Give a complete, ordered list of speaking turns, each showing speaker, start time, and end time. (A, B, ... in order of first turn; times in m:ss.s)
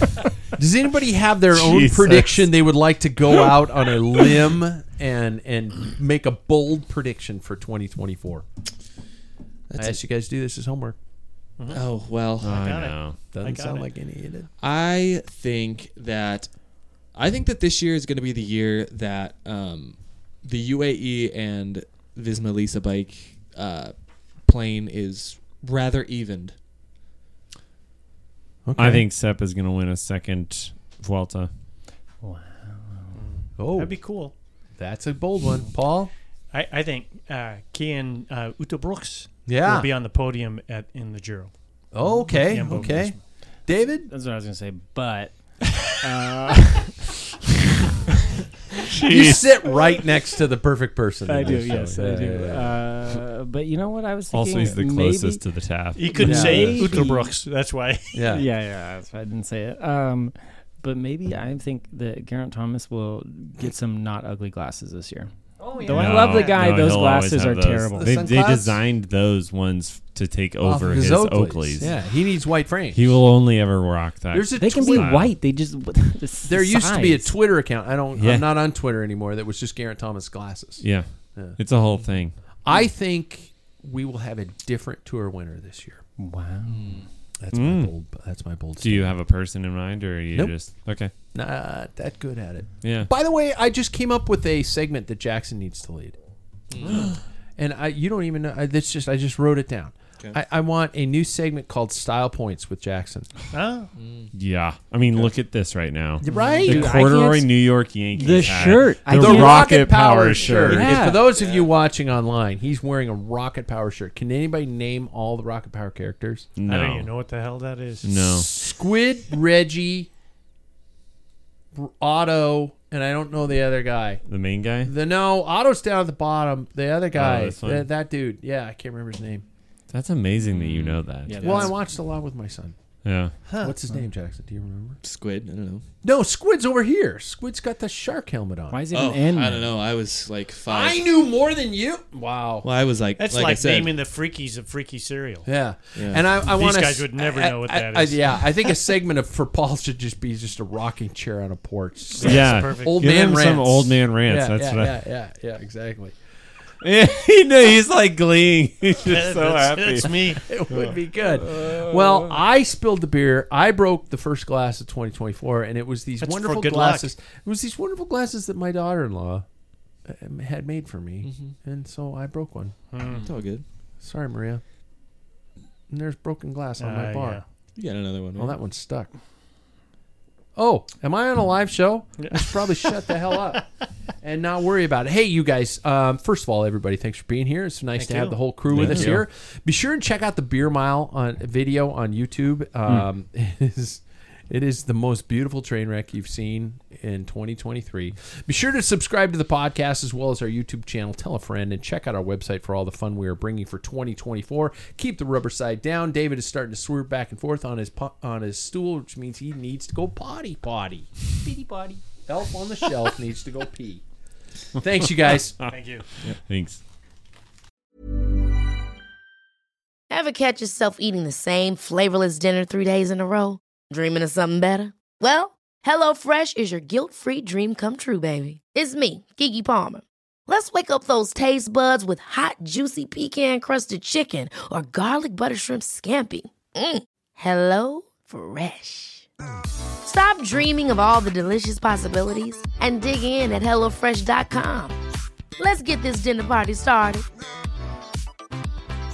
0:00.6-0:08.4 A
0:01.5-0:02.5 B
0:09.7-0:11.0 A
0:11.6-0:11.8 C
0:11.7-0:12.6 D
0:12.4-0:13.2 B
0:12.4-0:13.9 C
0:13.3-0:14.5 A
0:14.6-0:16.6 D
0:17.1-0:26.5 D
0:28.6-0:29.1 A
0:28.8-0:31.5 B
0:32.2-0:33.2 E
0:33.1-0:34.3 C
0:33.6-0:34.0 A
0:34.8-0:36.1 A
0:36.5-0:41.5 C
0:39.4-0:39.9 A
0:41.9-0:44.1 A
0:42.3-0:43.1 E
0:42.3-0:43.2 C
0:44.1-0:47.0 E
0:48.9-0:49.4 B
0:49.0-0:52.8 A
0:51.3-0:55.4 E
0:54.3-0:57.0 B
0:56.0-0:58.3 C
0:56.0-0:57.3 E
0:56.2-0:56.8 A
0:58.1-0:58.4 A
0:58.2-1:08.1 E
1:05.6-1:06.6 C
1:05.9-1:11.9 B
1:08.0-1:08.8 A
1:10.6-1:13.1 A
1:12.9-1:15.3 B
1:14.3-1:15.1 A
1:14.6-1:17.3 E
1:16.5-1:21.6 A
1:18.2-1:18.5 B
1:20.8-1:22.4 B
1:22.6-1:26.0 A
1:26.2-1:27.0 E
1:26.7-1:27.0 D
1:27.4-1:29.1 A
1:27.5-1:27.9 B
1:28.8-1:31.1 B
1:31.3-1:36.2 A
1:32.8-1:33.1 B
1:36.7-1:37.1 D
1:37.6-1:43.3 A
1:43.5-1:43.9 C
1:44.0-1:44.3 D
1:44.3-1:50.9 B
1:46.2-1:47.1 C
1:46.3-1:47.0 A
1:46.3-1:47.5 E
1:48.1-1:51.2 E
1:49.1-1:56.5 A
1:51.3-1:51.7 D
1:56.6-1:57.1 B
1:56.6-1:58.1 C
1:58.0-1:58.5 B
1:58.2-2:00.1 A
2:01.7-2:04.2 A
2:04.3-2:04.9 B
2:04.8-2:09.4 A
2:07.1-2:07.9 B
2:09.9-2:11.7 B
2:11.2-2:11.8 E
2:11.4-2:12.8 A
2:13.0-2:13.3 B
2:13.4-2:13.7 C
2:13.6-2:15.0 A
2:15.0-2:15.8 D
2:16.0-2:18.8 A
2:18.7-2:19.7 E
2:18.9-2:21.1 D
2:20.7-2:22.7 A
2:22.6-2:24.0 D
2:23.2-2:25.5 C
2:25.4-2:36.2 A
2:26.0-2:26.4 D
2:26.3-2:28.6 C
2:32.2-2:33.0 C
2:32.2-2:35.0 B
2:36.8-2:42.2 B
2:39.0-2:40.5 C
2:40.4-2:49.4 A
2:46.2-2:47.1 C
2:50.0-2:52.8 A
2:51.2-2:51.5 D
2:52.9-2:53.3 C
2:53.0-2:53.6 D
2:54.0-2:54.6 A
2:55.9-2:57.4 A
2:56.8-2:57.4 C
2:57.7-2:58.6 D
2:58.4-2:59.1 A
3:00.5-3:03.6 A
3:02.2-3:03.6 C
3:04.2-3:31.1 A
3:08.0-3:08.4 C
3:08.7-3:09.2 B
3:32.2-3:34.0 A
3:34.8-3:35.6 A
3:35.7-3:36.0 C
3:36.3-3:36.8 B
3:40.1-3:59.3 F
4:00.0-4:05.0 F
4:05.6-4:07.2 F